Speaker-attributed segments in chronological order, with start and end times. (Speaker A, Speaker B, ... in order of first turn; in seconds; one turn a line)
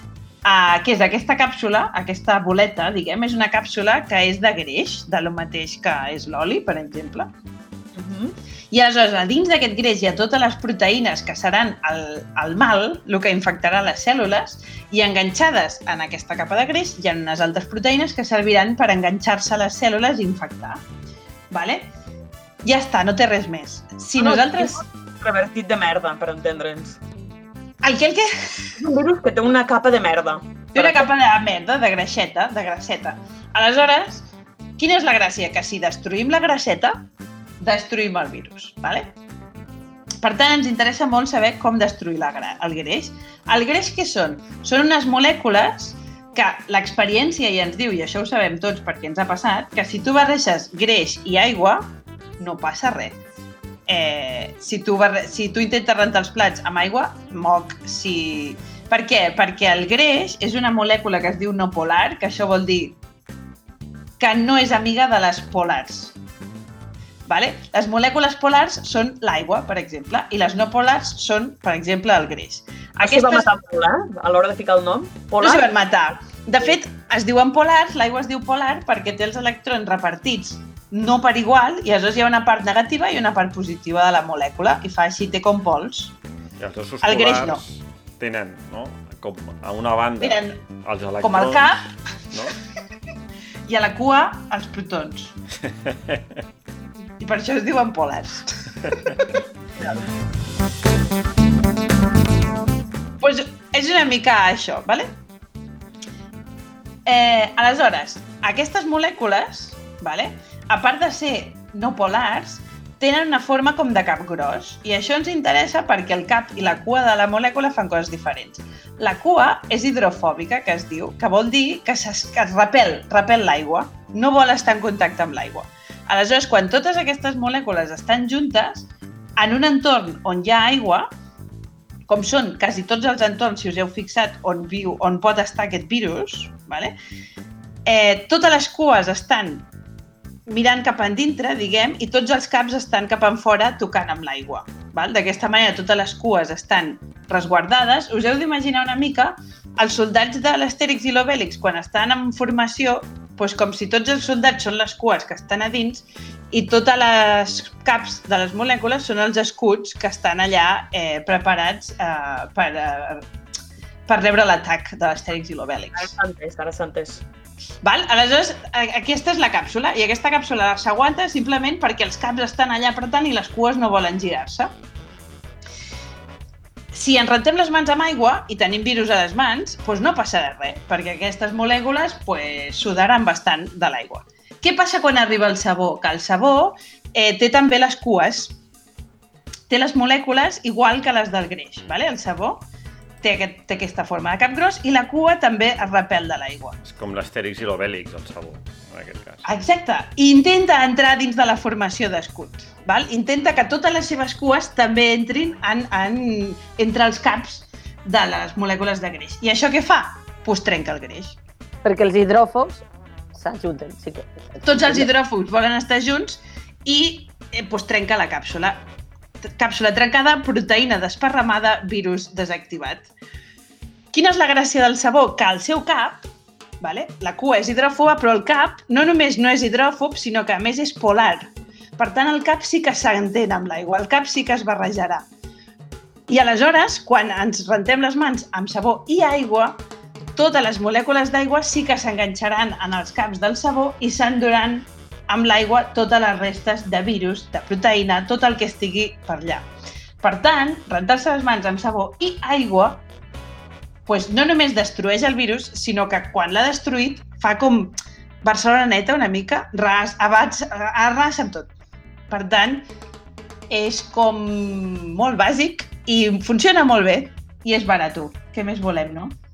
Speaker A: 0.4-7.3
Speaker B: 8.0-8.3
Speaker A: 8.7-20.8
Speaker A: 21.5-21.9
Speaker A: 22.6-24.8
Speaker B: 24.2-27.0
Speaker A: 27.8-28.8
Speaker B: 28.8-31.1
Speaker A: 30.7-34.3
Speaker A: 34.8-37.0
Speaker A: 37.6-39.1
Speaker A: 40.2-53.2
Speaker A: 53.9-63.0
Speaker A: 64.2-66.2
Speaker A: 67.3-73.5
Speaker B: 73.0-75.7
Speaker A: 75.4-86.1
Speaker C: 86.6-91.7
Speaker A: 87.0-87.6
Speaker A: 90.2-90.5
Speaker A: 91.2-91.9
Speaker A: 93.7-95.3
Speaker C: 95.6-96.4
Speaker A: 97.2-99.4
Speaker A: 103.2-105.1
Speaker A: 107.1-131.1
Speaker A: 132.1-136.9
Speaker A: 137.8-139.7
Speaker A: 140.5-163.3
Speaker A: 164.1-166.1
Speaker B: 165.9-167.2
Speaker A: 167.8-174.7
Speaker A: 176.9-188.6
Speaker A: 189.7-192.7
Speaker A: 193.2-196.8
Speaker C: 196.8-199.4
Speaker A: 199.4-211.4
Speaker D: 211.8-215.1
Speaker A: 214.6-218.8
Speaker A: 219.4-223.1
Speaker A: 224.1-226.3
Speaker A: 226.8-235.3
Speaker A: 236.3-239.8
Speaker A: 240.3-249.7
Speaker A: 250.2-253.0
Speaker A: 254.1-261.7
Speaker A: 262.3-262.9
Speaker A: 263.7-269.3